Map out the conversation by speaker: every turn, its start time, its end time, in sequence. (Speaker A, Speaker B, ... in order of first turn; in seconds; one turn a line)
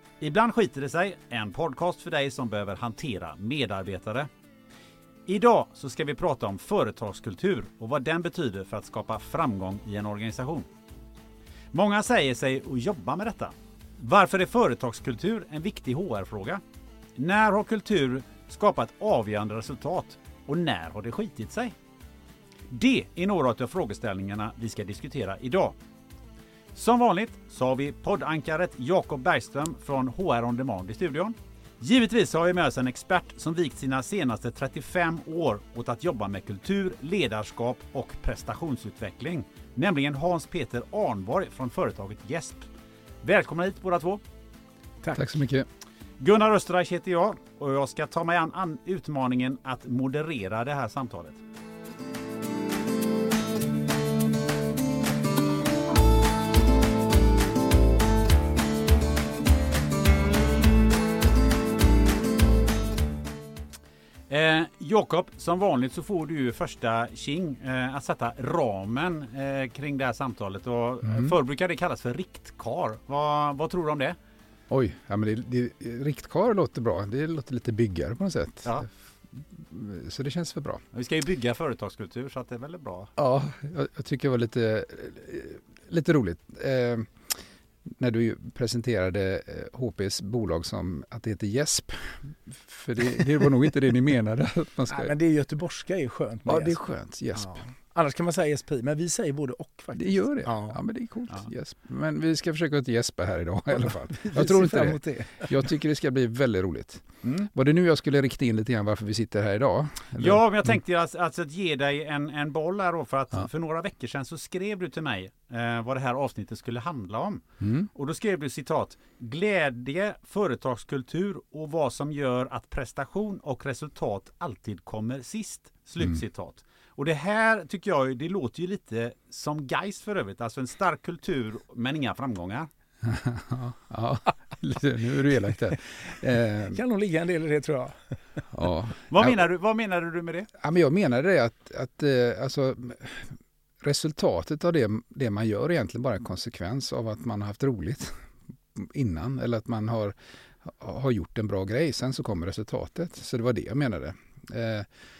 Speaker A: 0.2-4.3
Speaker A: 5.3-10.7
Speaker A: 11.7-16.6
Speaker A: 17.1-21.7
Speaker A: 22.7-25.7
Speaker A: 26.7-42.7
Speaker A: 43.2-44.2
Speaker B: 45.1-45.7
Speaker A: 46.2-51.4
Speaker A: 64.3-74.2
Speaker B: 71.0-71.3
Speaker B: 74.7-80.8
Speaker A: 80.9-83.1
Speaker B: 83.2-95.1
Speaker C: 94.9-96.8
Speaker B: 96.5-97.6
Speaker C: 97.3-100.8
Speaker B: 99.9-110.4
Speaker C: 103.8-105.5
Speaker A: 107.2-107.5
Speaker A: 110.2-132.7
Speaker B: 117.6-117.9
Speaker B: 133.0-136.8
Speaker C: 136.6-138.4
Speaker B: 138.5-139.4
Speaker A: 139.1-140.5
Speaker B: 140.5-154.9